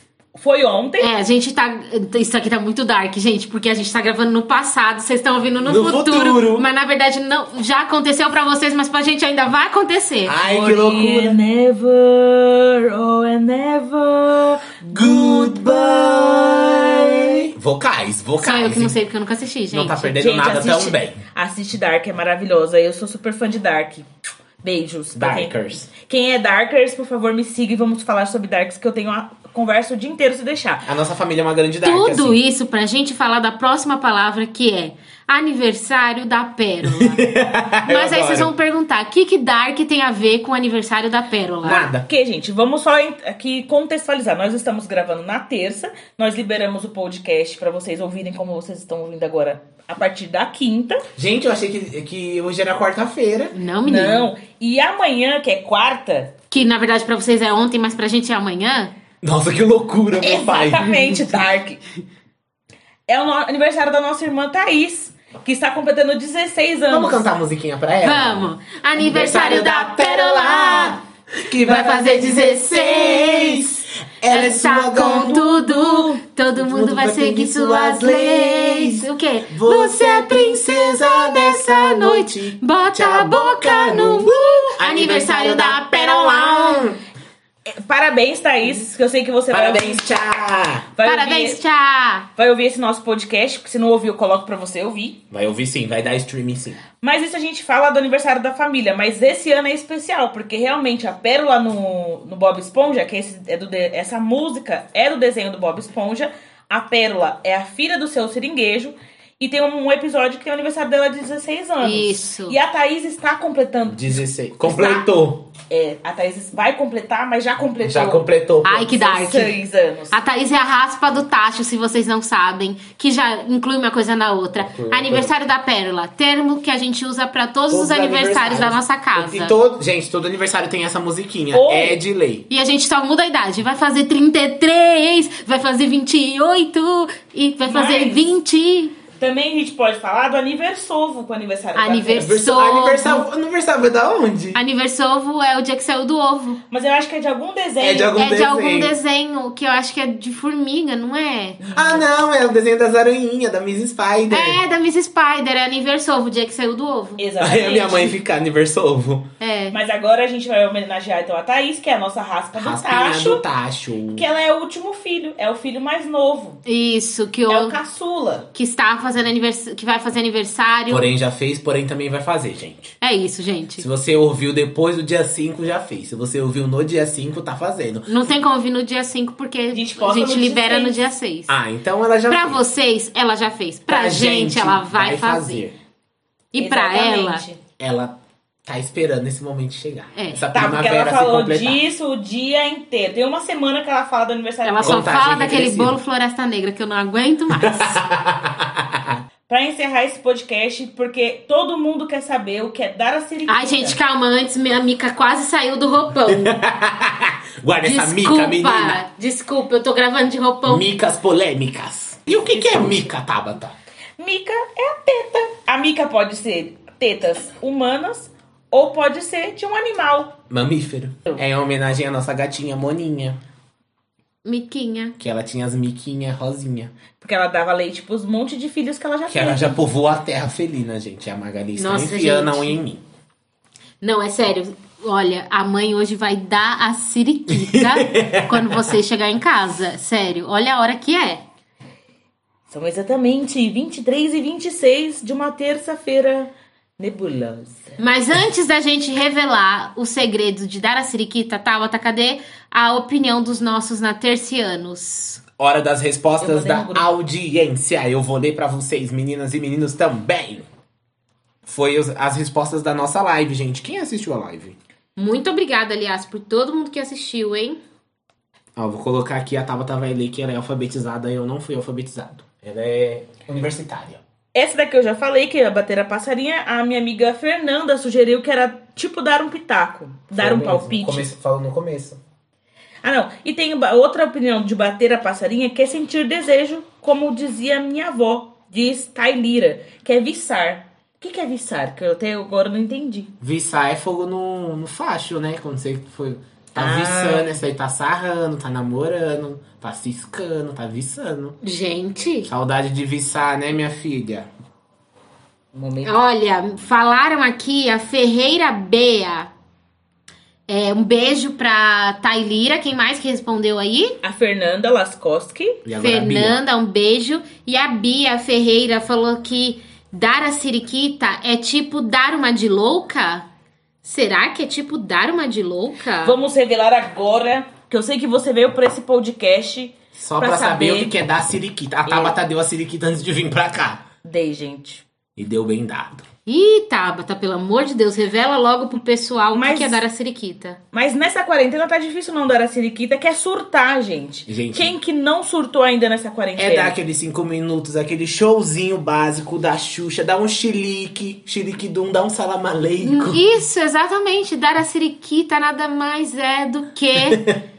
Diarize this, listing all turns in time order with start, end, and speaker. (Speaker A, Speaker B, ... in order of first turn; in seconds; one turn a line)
Speaker A: 0.3-1.1
Speaker B: 1.0-10.3
Speaker C: 5.6-6.7
Speaker C: 10.2-11.4
Speaker A: 10.4-17.4
Speaker C: 14.8-18.9
Speaker B: 18.4-20.2
Speaker C: 19.7-21.2
Speaker A: 20.2-24.1
Speaker A: 24.6-30.9
Speaker C: 25.1-25.9
Speaker C: 30.9-32.4
Speaker B: 31.8-37.2
Speaker C: 36.8-38.5
Speaker B: 37.8-41.9
Speaker C: 41.6-42.0
Speaker A: 42.0-51.0
Speaker C: 51.1-53.6
Speaker B: 53.5-54.3
Speaker A: 53.8-56.3
Speaker B: 56.5-58.9
Speaker C: 59.2-61.0
Speaker A: 60.2-61.8
Speaker A: 63.1-67.2
Speaker C: 66.9-75.4
Speaker B: 68.0-71.0
Speaker B: 71.5-73.6
Speaker B: 74.3-86.9
Speaker A: 75.0-76.2
Speaker C: 76.5-87.0
Speaker A: 87.8-90.1
Speaker C: 89.5-90.9
Speaker A: 90.9-91.6
Speaker B: 91.0-92.3
Speaker A: 92.4-95.2
Speaker C: 95.3-96.8
Speaker A: 97.0-114.2
Speaker B: 111.8-112.6
Speaker C: 113.9-115.5
Speaker B: 114.7-115.0
Speaker A: 115.7-118.2
Speaker C: 117.8-118.9
Speaker B: 118.6-119.5
Speaker A: 118.8-120.2
Speaker B: 120.1-129.5
Speaker C: 124.6-125.3
Speaker C: 127.7-132.5
Speaker A: 131.5-132.0
Speaker B: 132.5-138.9
Speaker A: 137.6-138.3
Speaker A: 139.2-142.3
Speaker B: 141.7-143.2
Speaker C: 142.1-144.6
Speaker B: 144.5-146.6
Speaker A: 146.7-148.2
Speaker C: 147.8-148.9
Speaker B: 148.2-151.7
Speaker A: 151.6-152.0
Speaker C: 151.7-154.6
Speaker B: 154.3-157.2
Speaker A: 157.2-158.1
Speaker C: 157.4-159.3
Speaker B: 159.4-159.8
Speaker A: 159.7-163.4
Speaker C: 162.5-164.2
Speaker A: 164.1-166.6
Speaker B: 166.7-167.8
Speaker A: 167.5-168.5
Speaker B: 168.5-171.1
Speaker C: 170.9-172.9
Speaker B: 173.0-173.8
Speaker C: 173.8-178.1
Speaker B: 178.1-181.6
Speaker A: 179.7-181.0
Speaker C: 181.5-182.6
Speaker B: 182.3-185.7
Speaker C: 183.9-185.7
Speaker B: 186.5-187.4
Speaker A: 186.6-187.6
Speaker C: 187.8-191.8
Speaker B: 190.2-190.4
Speaker A: 190.5-195.2
Speaker B: 194.6-198.0
Speaker C: 194.8-196.0
Speaker C: 197.5-199.2
Speaker A: 199.5-204.0
Speaker B: 203.5-206.6
Speaker C: 206.2-209.0
Speaker B: 207.8-210.9
Speaker C: 210.7-213.7
Speaker B: 212.4-213.1
Speaker A: 214.2-220.4
Speaker C: 220.5-223.4
Speaker B: 224.4-225.2
Speaker C: 225.2-226.9
Speaker A: 227.2-229.8
Speaker C: 229.3-233.0
Speaker B: 231.8-232.8
Speaker B: 234.0-241.4
Speaker C: 237.5-238.9
Speaker A: 242.7-248.0
Speaker B: 248.0-255.4
Speaker C: 255.6-260.7
Speaker A: 256.4-257.1
Speaker C: 261.6-264.8
Speaker B: 265.1-267.8
Speaker C: 268.8-274.2
Speaker A: 274.5-281.3
Speaker C: 280.3-282.2
Speaker A: 283.0-293.3
Speaker C: 293.4-301.6
Speaker A: 296.8-297.6
Speaker B: 301.6-302.5
Speaker C: 302.4-304.5
Speaker A: 305.7-306.1
Speaker B: 306.0-309.5
Speaker B: 310.7-314.2
Speaker A: 314.2-315.8
Speaker C: 315.8-316.6
Speaker B: 315.9-323.4
Speaker B: 324.0-326.4
Speaker A: 326.2-331.1
Speaker C: 330.1-334.0
Speaker A: 332.1-332.4
Speaker A: 334.2-335.0
Speaker C: 335.4-336.2
Speaker B: 336.5-340.8
Speaker A: 339.5-340.0
Speaker A: 340.9-346.9
Speaker C: 344.5-344.9
Speaker C: 346.6-353.4
Speaker B: 353.0-357.4
Speaker C: 357.2-357.6